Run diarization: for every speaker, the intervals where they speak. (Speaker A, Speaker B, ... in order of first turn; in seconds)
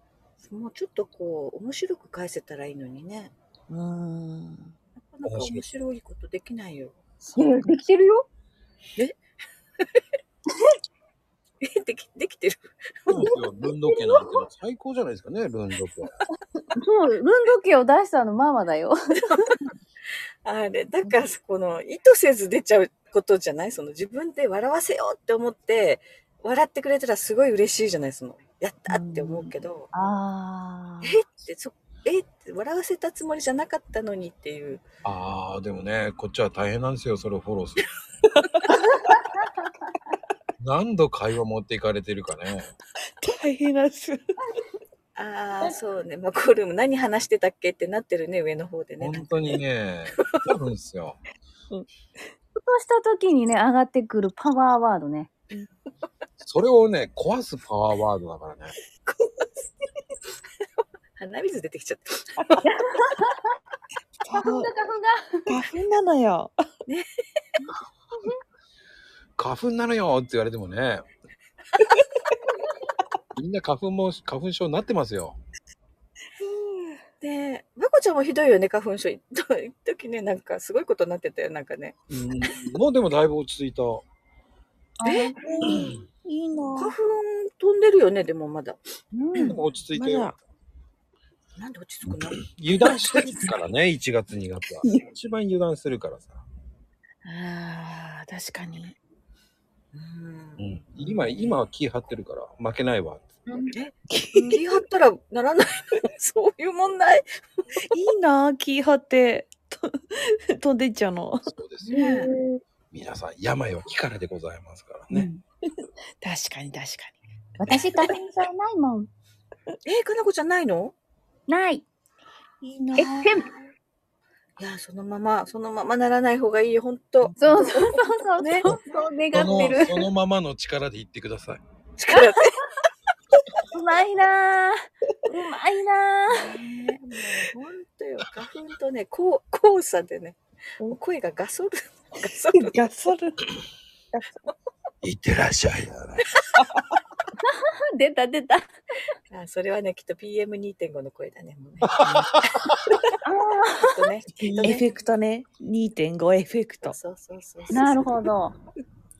Speaker A: 0.4-3.3, 5.0-7.0, 11.6-13.2, 20.4-29.9, 31.0-34.8, 45.1-49.6, 59.2-59.7, 61.2-62.6, 77.2-82.0, 85.0-86.0, 86.8-88.8, 89.3-89.6, 91.6-93.2, 99.9-101.5, 103.7-107.2, 111.9-112.3, 119.8-120.9, 124.6-128.7, 132.0-132.5, 136.3-142.8, 149.3-152.7, 153.8-154.8, 156.8-158.2
Speaker B: 3.7-4.7, 28.9-29.5, 43.2-44.2, 64.2-64.7, 65.5-66.5, 85.0-86.9, 89.1-90.3, 93.0-93.4, 97.2-99.0, 104.1-104.6, 107.8-111.4, 116.2-117.2, 122.6-123.3, 142.5-143.5, 154.4-156.9
Speaker C: 5.2-5.6, 13.1-16.1, 35.0-37.9, 40.6-42.7, 49.0-51.2, 56.4-58.7, 69.4-71.1, 73.3-75.4, 82.1-84.0, 89.4-90.4, 92.1-96.4, 100.6-103.2, 111.5-112.0, 112.9-115.3, 129.3-131.6, 145.0-146.3, 152.1-152.7
Speaker D: 7.2-8.2, 13.1-14.4, 16.8-18.9, 29.9-31.2, 38.7-39.5, 52.6-55.3, 62.7-63.4, 64.3-65.5, 85.1-85.3, 103.5-103.7, 111.9-112.6, 115.1-115.4, 117.6-119.1, 121.5-121.8, 122.9-123.5, 127.4-130.0, 133.7-136.4, 147.9-148.7, 153.2-153.9, 157.7-158.5